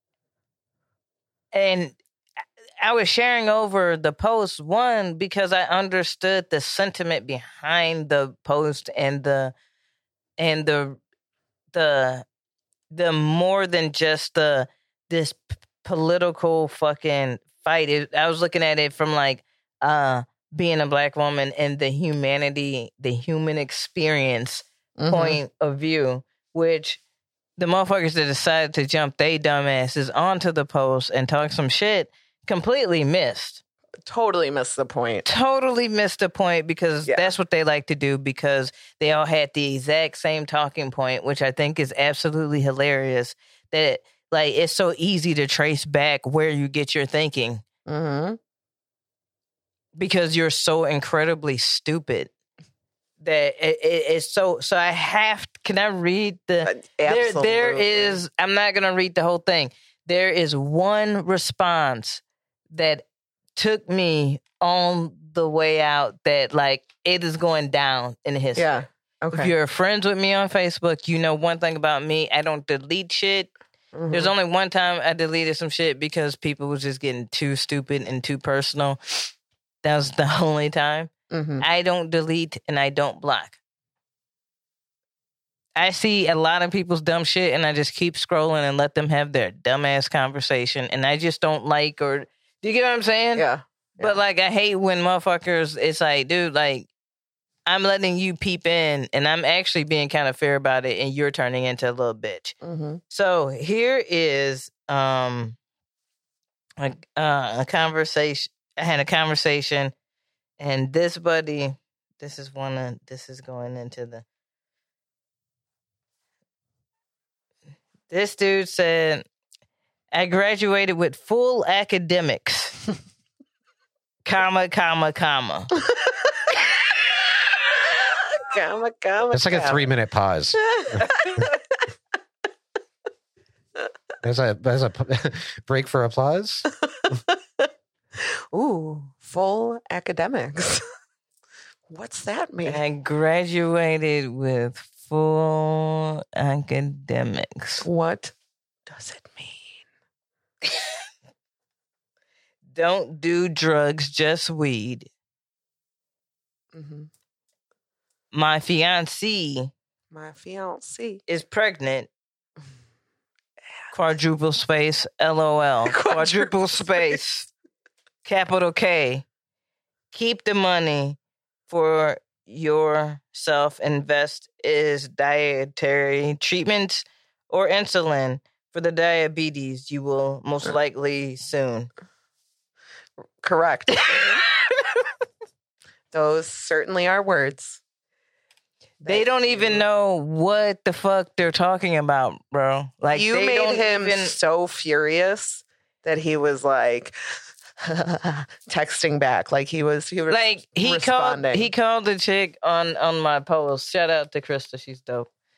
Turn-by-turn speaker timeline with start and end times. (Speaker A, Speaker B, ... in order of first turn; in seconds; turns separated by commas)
Speaker A: 1.5-2.0, Speaker A: 2.8-9.5, Speaker A: 10.4-11.0, Speaker A: 11.7-12.2, Speaker A: 12.9-27.0, Speaker B: 25.0-25.4, Speaker A: 27.6-33.6, Speaker B: 34.1-35.3, Speaker A: 35.3-47.6, Speaker B: 47.9-48.4, Speaker A: 50.0-52.3, Speaker A: 53.2-62.2, Speaker B: 56.6-58.2, Speaker A: 62.7-63.0, Speaker A: 63.6-68.7, Speaker B: 68.6-69.5, Speaker A: 69.3-73.5, Speaker B: 73.9-74.3, Speaker A: 74.1-79.3, Speaker A: 79.8-83.6, Speaker B: 81.3-81.6, Speaker A: 85.8-93.5, Speaker B: 93.3-94.2, Speaker A: 94.0-96.9, Speaker A: 97.7-102.5, Speaker B: 102.6-103.0, Speaker A: 103.1-105.6, Speaker A: 106.8-109.9, Speaker A: 110.6-114.2, Speaker A: 118.1-119.2, Speaker A: 120.1-122.8, Speaker A: 124.2-125.7, Speaker B: 128.4-129.9, Speaker C: 129.3-131.1, Speaker B: 130.5-131.6, Speaker C: 134.2-136.7, Speaker B: 137.6-140.8, Speaker B: 141.9-142.8, Speaker A: 142.6-147.9, Speaker B: 147.8-148.3, Speaker B: 148.9-149.8, Speaker A: 152.7-155.1, Speaker B: 156.7-157.1, Speaker A: 158.3-159.7, Speaker B: 160.1-161.2, Speaker A: 161.3-162.1, Speaker A: 163.9-167.5, Speaker B: 165.9-167.2, Speaker A: 168.2-169.2, Speaker A: 170.1-181.9, Speaker B: 183.4-184.4, Speaker A: 184.1-184.8, Speaker B: 186.1-187.8, Speaker B: 189.0-189.8, Speaker A: 189.1-194.3, Speaker B: 193.1-197.1, Speaker B: 197.8-201.7, Speaker A: 200.3-205.3